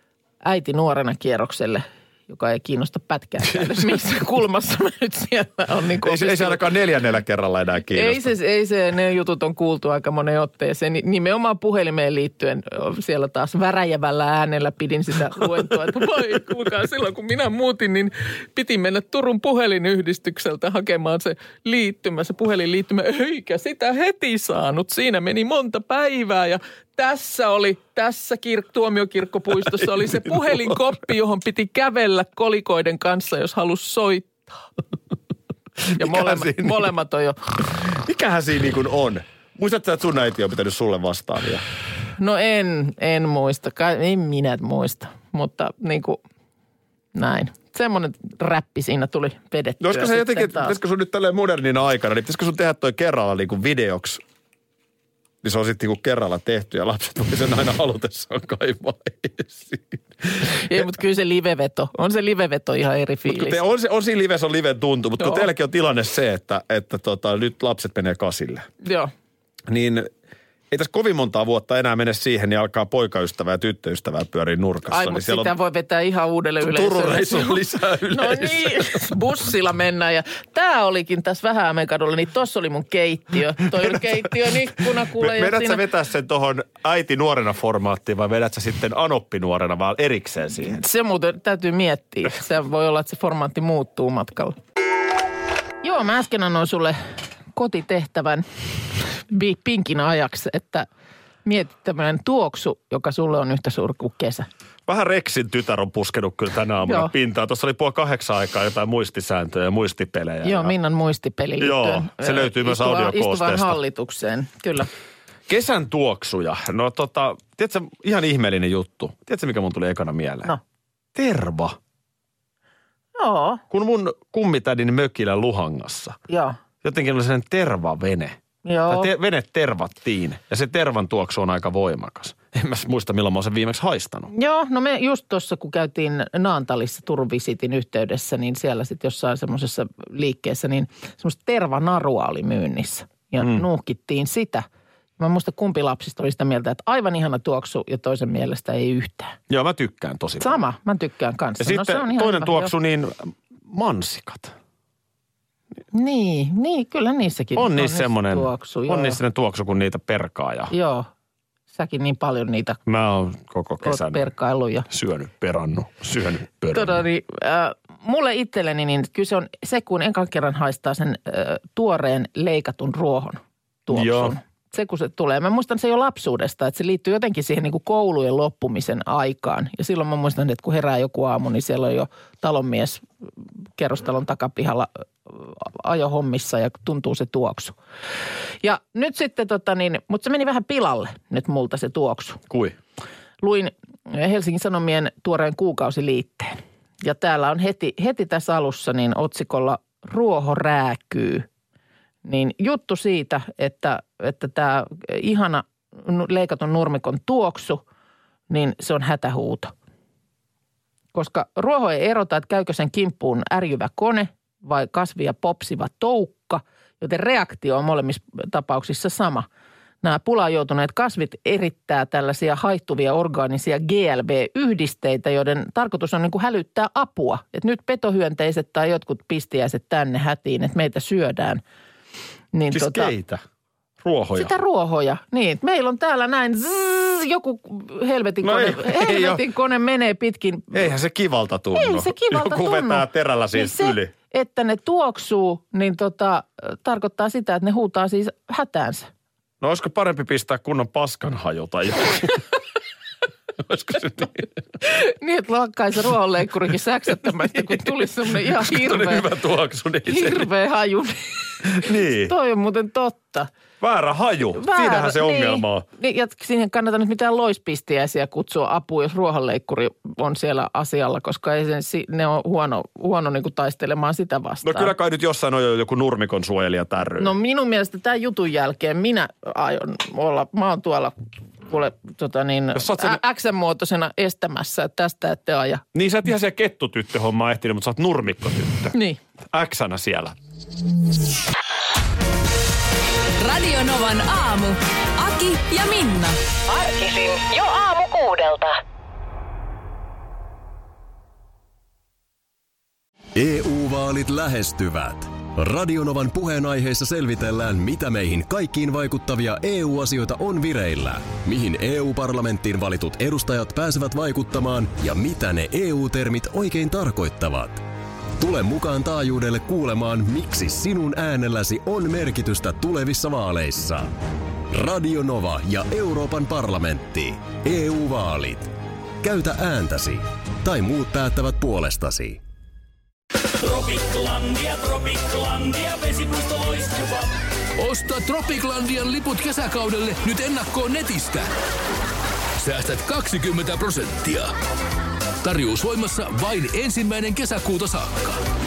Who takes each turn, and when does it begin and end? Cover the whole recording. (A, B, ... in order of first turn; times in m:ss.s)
0:00.4-0:06.7 A
0:06.0-0:08.3 B
0:07.9-0:34.5 A
0:35.9-0:36.8 B
0:36.0-0:37.6 A
0:37.8-0:41.6 B
0:42.2-0:46.2 A
0:47.1-0:50.8 A
0:49.8-0:54.2 B
0:55.4-1:00.9 B
1:00.5-1:03.6 A
1:03.3-1:08.6 B
1:05.2-1:05.5 A
1:08.8-1:09.1 A
1:09.7-1:10.1 B
1:10.7-1:15.5 B
1:14.9-1:25.8 A
1:16.6-1:19.0 B
1:23.8-1:24.3 B
1:25.0-1:30.8 B
1:30.6-1:34.6 A
1:35.8-1:37.0 A
1:37.5-1:40.9 A
1:41.4-1:44.5 A
1:44.9-1:50.7 B
1:46.8-1:47.1 A
1:50.4-1:54.9 A
1:51.6-1:53.8 B
1:55.5-2:00.5 B
2:01.1-2:01.7 B
2:03.2-2:03.6 A
2:03.7-2:06.2 B
2:06.3-2:06.6 A
2:06.8-2:08.4 B
2:08.6-2:09.1 A
2:08.9-2:14.3 B
2:14.3-2:24.6 A
2:25.2-2:29.4 A
2:29.5-2:30.6 B
2:30.4-2:32.7 A
2:31.6-2:34.5 B
2:35.9-2:39.2 A
2:37.5-2:40.7 B
2:40.7-2:41.1 A
2:41.7-2:42.8 A
2:42.8-2:44.2 B
2:43.8-2:44.9 A
2:44.9-2:47.0 B
2:46.7-3:03.0 A
2:53.9-2:54.4 B
3:03.8-3:07.8 A
3:08.6-3:12.4 A
3:12.5-3:12.8 B
3:13.4-3:21.5 A
3:22.2-3:27.8 A
3:28.5-3:29.7 A
3:31.1-3:39.5 A
3:40.0-3:51.6 A
3:52.5-3:53.1 A
3:52.7-3:53.4 B
3:54.0-3:54.5 B
3:54.4-4:00.9 A
3:58.4-3:59.4 B
4:00.7-4:04.1 B
4:01.7-4:09.1 A
4:09.6-4:12.5 B
4:13.6-4:14.5 B
4:14.8-4:19.3 A
4:18.4-4:20.5 B
4:20.0-4:23.5 A
4:21.7-4:22.3 B
4:23.8-4:25.8 B
4:24.5-4:34.9 A
4:34.6-4:37.3 B
4:37.2-4:45.8 A
4:42.7-4:43.2 B
4:45.9-4:48.9 B
4:48.9-4:49.2 A
4:49.5-4:50.4 B
4:53.4-4:56.4 C
4:56.7-4:58.8 D
5:03.4-5:17.8 E
5:18.4-5:24.1 E
5:24.7-5:28.7 E
5:29.2-5:32.4 E
5:35.7-5:37.2 F
5:37.8-5:41.5 F
5:42.6-5:44.5 F
5:45.4-5:48.4 F